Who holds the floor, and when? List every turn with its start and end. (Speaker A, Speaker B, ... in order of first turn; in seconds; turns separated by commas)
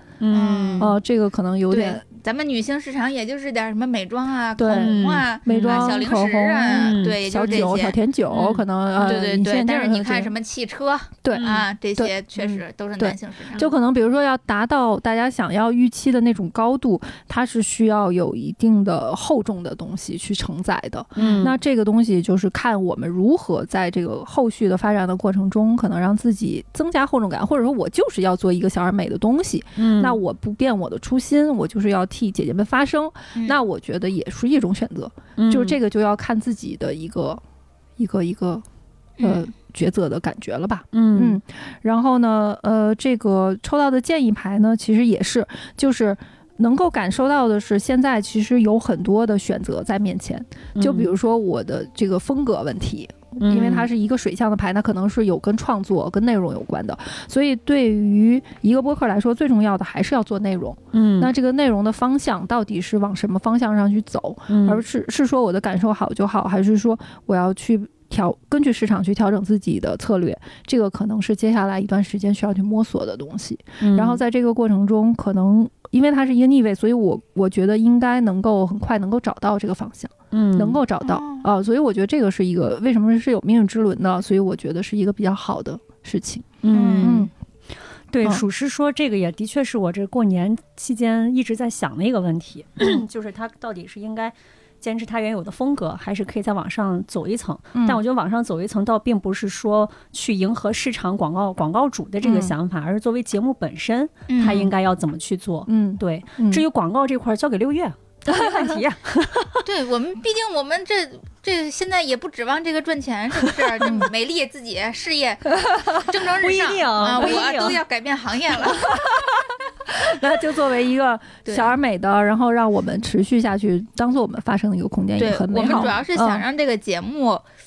Speaker A: 0.2-0.9, Speaker B: 0.3-0.9, Speaker C: 0.8-2.0, Speaker B: 1.7-8.0, Speaker C: 4.6-10.3, Speaker A: 4.7-6.0, Speaker A: 6.8-7.2, Speaker A: 8.3-8.6, Speaker B: 8.9-13.7, Speaker C: 11.2-37.4, Speaker A: 11.3-11.6, Speaker A: 21.2-21.6, Speaker A: 29.8-30.2, Speaker A: 35.4-35.8, Speaker C: 38.0-38.6, Speaker B: 39.2-39.5, Speaker C: 39.2-87.3, Speaker A: 40.9-41.4, Speaker A: 50.8-51.1, Speaker A: 53.4-53.9, Speaker A: 60.9-61.3, Speaker A: 64.5-64.8, Speaker A: 73.8-74.2, Speaker A: 80.3-80.8, Speaker B: 81.0-81.5, Speaker A: 86.6-87.3, Speaker B: 86.7-87.3, Speaker A: 88.1-109.6, Speaker C: 97.7-98.0, Speaker C: 102.2-102.5, Speaker B: 104.3-104.7, Speaker C: 104.4-104.7, Speaker C: 105.7-106.6, Speaker C: 108.3-108.8, Speaker B: 109.6-119.0, Speaker C: 115.6-116.0, Speaker A: 116.4-117.8, Speaker C: 118.7-126.4, Speaker B: 121.5-121.7, Speaker B: 125.2-127.5, Speaker A: 125.6-125.9